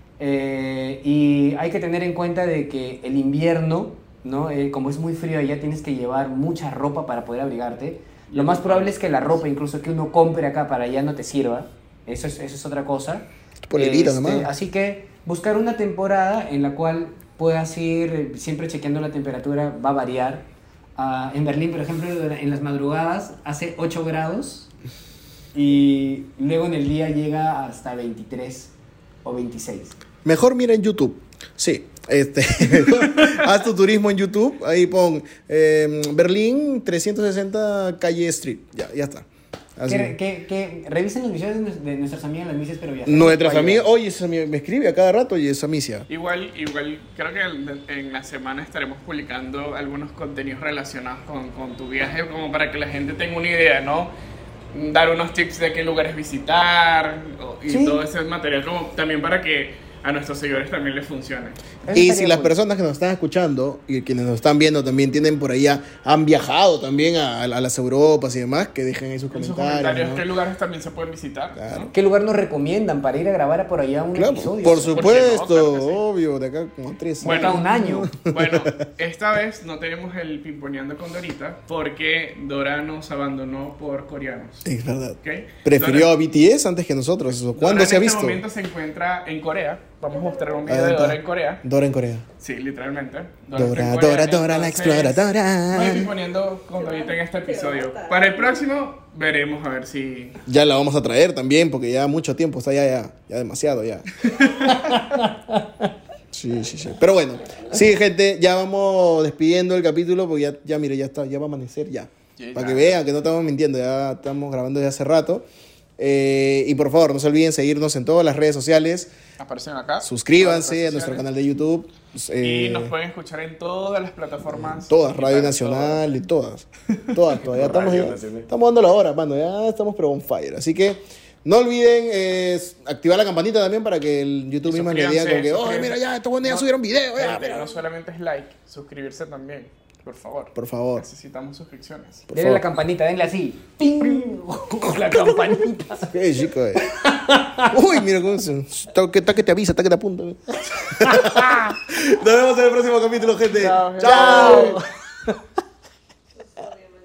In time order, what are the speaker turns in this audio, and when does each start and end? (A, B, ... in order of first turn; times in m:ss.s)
0:00.2-0:24.7 A
0:08.3-0:09.4 B
0:13.7-0:14.5 C
0:25.5-0:28.7 A
0:29.2-0:30.0 A
0:30.2-0:40.1 C
0:39.9-0:43.9 A
0:43.0-0:46.1 C
0:46.1-0:54.1 B
0:54.7-1:01.6 B
0:57.7-0:58.0 A
1:01.8-1:02.6 A
1:01.9-1:10.3 C
1:09.3-1:11.9 B
1:11.6-1:11.9 C
1:11.9-1:15.3 A
1:14.1-1:18.7 C
1:14.7-1:16.0 B
1:17.2-1:18.1 A
1:17.2-1:17.6 B
1:18.2-1:24.7 B
1:24.6-1:28.4 C
1:25.2-1:26.1 B
1:27.5-1:31.6 B
1:30.7-1:32.3 C
1:32.4-1:40.4 B
1:33.6-1:36.1 C
1:40.4-1:44.1 C
1:44.2-1:45.0 B
1:44.8-1:45.6 A
1:46.3-1:55.4 C
1:52.4-1:53.0 B
1:56.0-1:59.1 C
1:59.4-2:01.3 B
2:00.0-2:02.9 C
2:02.4-2:06.0 B
2:04.5-2:17.7 C
2:07.0-2:08.4 B
2:14.7-2:22.3 B
2:20.6-2:21.0 C
2:22.3-2:22.6 C
2:22.3-2:26.1 A
2:25.1-2:25.3 C
2:25.9-2:34.8 C
2:26.8-2:27.8 A
2:30.8-2:31.6 A
2:33.5-2:34.8 B
2:34.0-2:35.4 A